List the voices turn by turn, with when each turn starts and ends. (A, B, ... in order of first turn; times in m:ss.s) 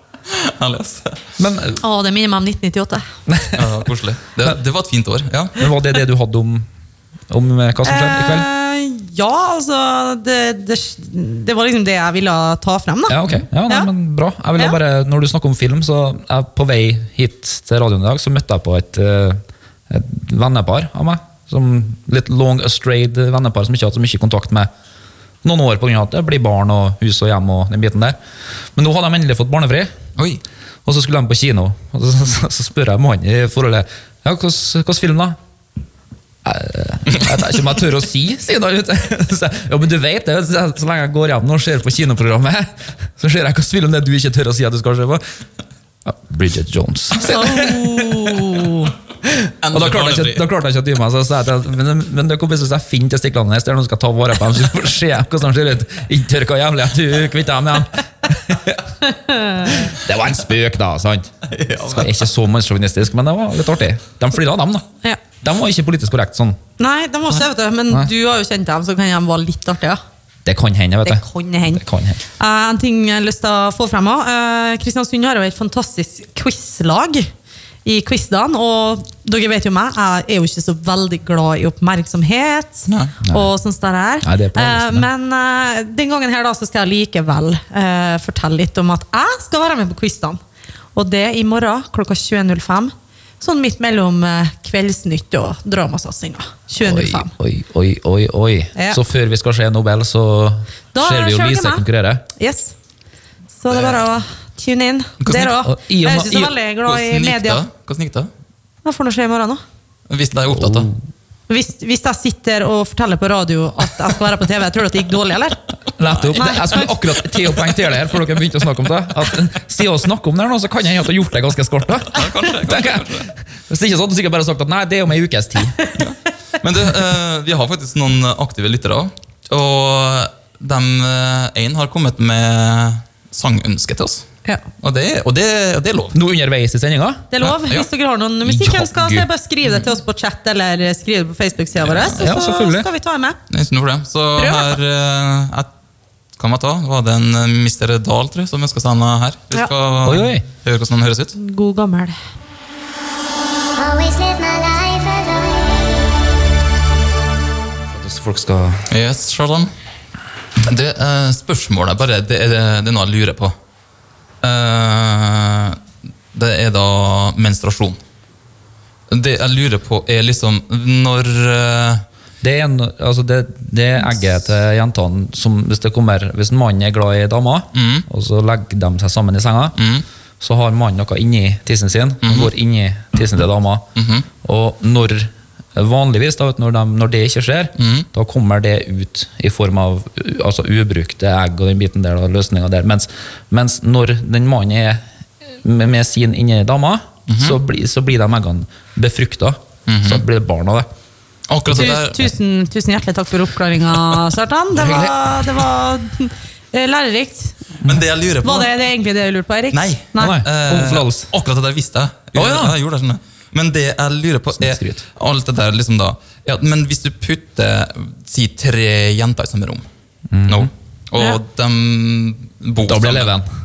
0:00.3-0:01.2 A
0:01.4-0:01.8 B
0:01.8-0:03.0 C
0:03.3-0:03.6 B
0:03.5-0:05.6 A
0:05.6-0:06.7 B
0:07.3-0:08.5 B
0:07.8-0:13.9 C
0:13.1-0:24.7 B
0:25.4-0:28.2 B
0:28.7-0:29.9 B
0:30.2-0:30.4 A
0:30.8-0:35.4 B
0:36.4-0:45.2 B
0:46.0-0:48.6 B
0:47.2-0:48.9 C
0:49.2-0:58.8 B
0:49.6-0:50.4 A
0:59.1-0:59.8 C
0:59.6-1:04.9 B
1:01.5-1:02.2 A
1:05.4-1:06.6 B
1:06.8-1:10.0 C
1:10.4-1:12.2 B
1:11.0-1:11.8 C
1:12.4-1:17.3 C
1:17.8-1:30.4 C
1:22.9-1:23.1 A
1:24.2-1:25.1 B
1:30.9-1:37.3 C
1:36.8-1:42.2 B
1:38.7-1:39.0 C
1:40.9-1:41.8 C
1:42.4-1:42.7 C
1:43.6-1:47.6 C
1:45.3-1:46.5 B
1:46.8-1:48.3 A
1:48.8-1:49.6 C
1:50.1-1:50.9 A
1:50.5-1:50.9 B
1:51.5-1:55.6 C
1:56.0-2:06.0 B
1:56.3-1:56.9 C
2:02.1-2:03.3 A
2:06.0-2:14.3 A
2:14.8-2:16.1 A
2:16.1-2:17.3 B
2:17.3-2:23.4 C
2:17.4-2:17.9 A
2:18.4-2:19.3 B
2:21.9-2:22.2 A
2:22.2-2:22.9 B
2:23.5-2:25.7 A
2:24.4-2:24.8 C
2:26.4-2:31.3 A
2:30.0-2:30.4 B
2:31.4-2:32.2 C
2:33.8-2:36.1 D
2:37.9-2:38.9 B
2:38.9-2:39.7 A
2:40.6-2:43.5 A
2:44.4-2:45.8 A
2:46.3-2:48.0 A
2:49.1-2:52.0 A
2:52.4-2:59.8 B
2:57.7-2:58.0 A
2:59.8-3:00.0 A
3:00.4-3:03.8 B
3:02.2-3:02.5 A
3:04.0-3:04.3 A
3:04.4-3:15.0 B
3:07.8-3:08.1 A
3:15.6-3:20.9 B
3:17.3-3:17.6 A
3:19.9-3:20.2 A
3:21.5-3:22.2 A
3:21.7-3:27.6 C
3:24.7-3:25.1 B
3:27.8-3:28.7 A
3:28.4-3:30.4 C
3:29.7-3:39.8 A
3:30.2-3:31.3 B
3:32.4-3:32.7 B
3:34.6-3:35.0 B
3:40.3-3:40.7 B
3:40.5-3:43.3 A
3:42.8-3:43.5 B